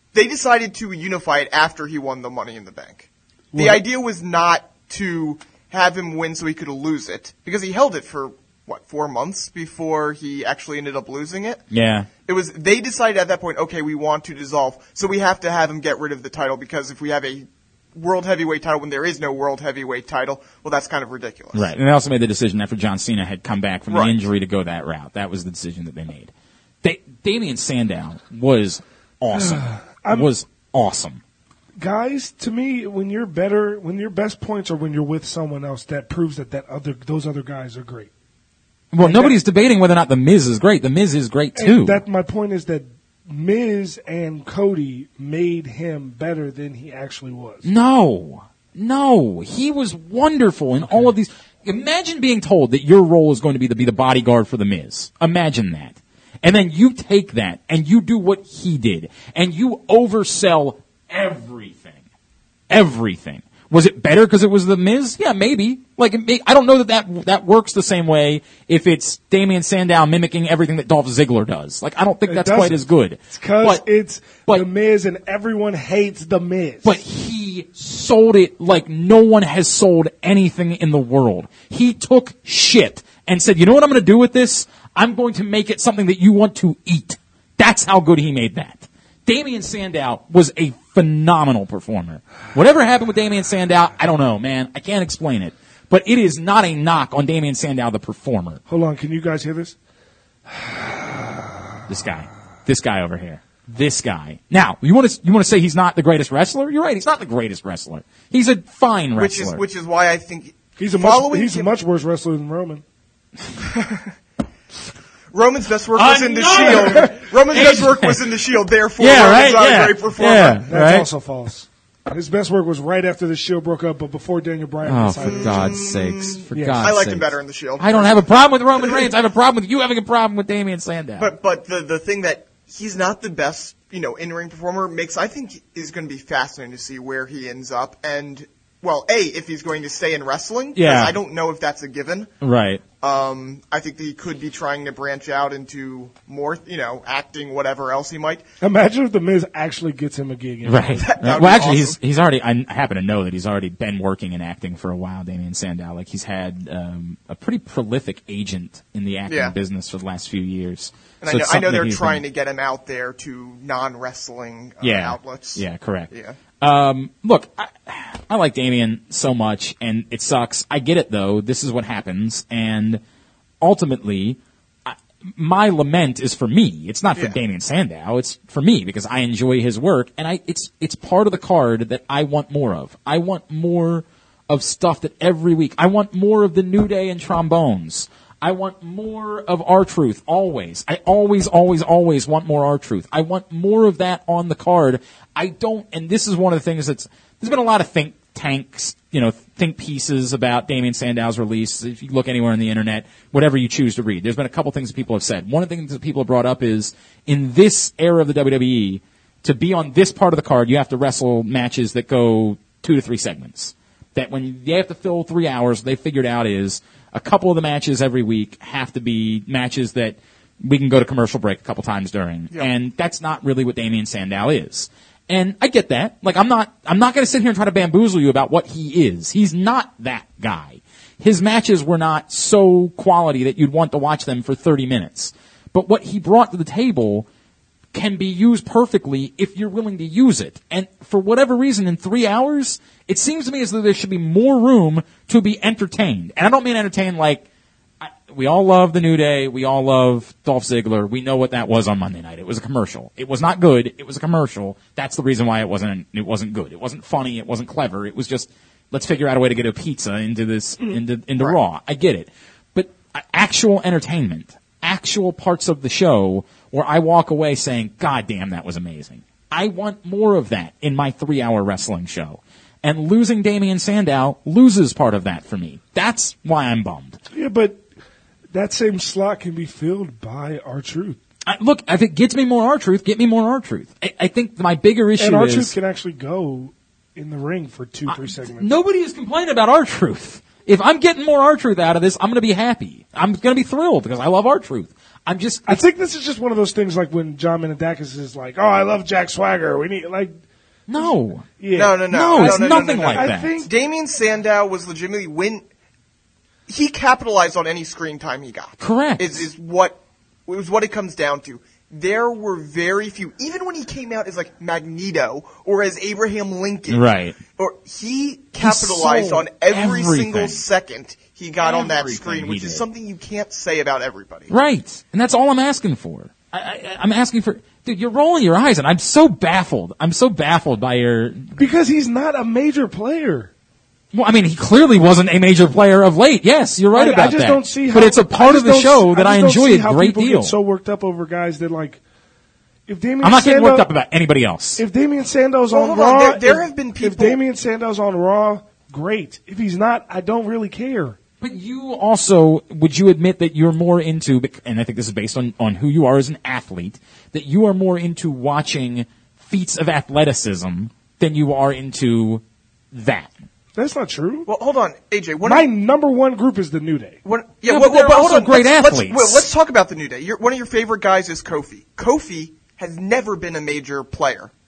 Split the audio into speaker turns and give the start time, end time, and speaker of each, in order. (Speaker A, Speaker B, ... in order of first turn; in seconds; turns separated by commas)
Speaker A: 0.1-11.6, Speaker B: 3.5-3.8, Speaker C: 11.7-12.1, Speaker A: 12.3-21.7, Speaker C: 21.5-26.3, Speaker A: 23.9-24.2, Speaker C: 26.8-31.2, Speaker B: 29.3-30.3, Speaker B: 31.8-38.1, Speaker C: 38.9-42.0, Speaker B: 39.0-39.4, Speaker B: 41.5-47.7, Speaker C: 47.6-62.0, Speaker B: 50.8-51.1, Speaker C: 62.7-73.8, Speaker B: 72.3-76.9, Speaker C: 76.8-98.6, Speaker B: 98.7-99.7, Speaker B: 100.5-101.3, Speaker C: 101.9-109.6, Speaker A: 109.2-111.7, Speaker B: 110.8-112.8, Speaker A: 113.6-114.1, Speaker A: 115.3-120.6, Speaker C: 115.9-118.2, Speaker C: 119.0-121.1, Speaker B: 120.6-125.8, Speaker C: 124.8-131.3, Speaker A: 125.2-128.2, Speaker B: 126.5-126.8, Speaker A: 128.7-129.1, Speaker A: 131.2-142.3, Speaker C: 140.7-141.2, Speaker C: 142.4-142.8, Speaker A: 143.0-148.4, Speaker B: 148.6-151.2, Speaker C: 150.6-162.2, Speaker A: 151.0-152.0, Speaker A: 159.3-159.5, Speaker A: 161.2-166.4, Speaker C: 164.8-166.1, Speaker C: 166.6-173.0, Speaker C: 173.6-237.3, Speaker C: 237.9-247.4, Speaker C: 248.0-277.2, Speaker B: 277.3-277.8, Speaker B: 278.5-281.2, Speaker C: 281.4-285.7, Speaker B: 285.2-288.7, Speaker C: 288.1-295.8, Speaker B: 295.7-300.3, Speaker C: 300.9-301.4, Speaker B: 301.0-303.7, Speaker A: 301.7-305.6, Speaker C: 302.1-303.6, Speaker A: 306.7-317.0, Speaker C: 308.8-309.5, Speaker C: 316.9-317.4, Speaker A: 317.6-324.5, Speaker C: 318.6-320.6, Speaker C: 321.6-322.9, Speaker C: 324.5-331.7, Speaker B: 331.6-333.5, Speaker C: 334.1-340.6, Speaker B: 336.9-342.0, Speaker B: 342.9-343.9, Speaker C: 343.2-344.8, Speaker B: 344.8-351.2, Speaker A: 345.7-347.4, Speaker C: 351.4-363.3, Speaker B: 363.8-364.5, Speaker A: 364.5-365.7, Speaker B: 365.4-367.2, Speaker A: 367.2-374.5, Speaker C: 367.6-369.5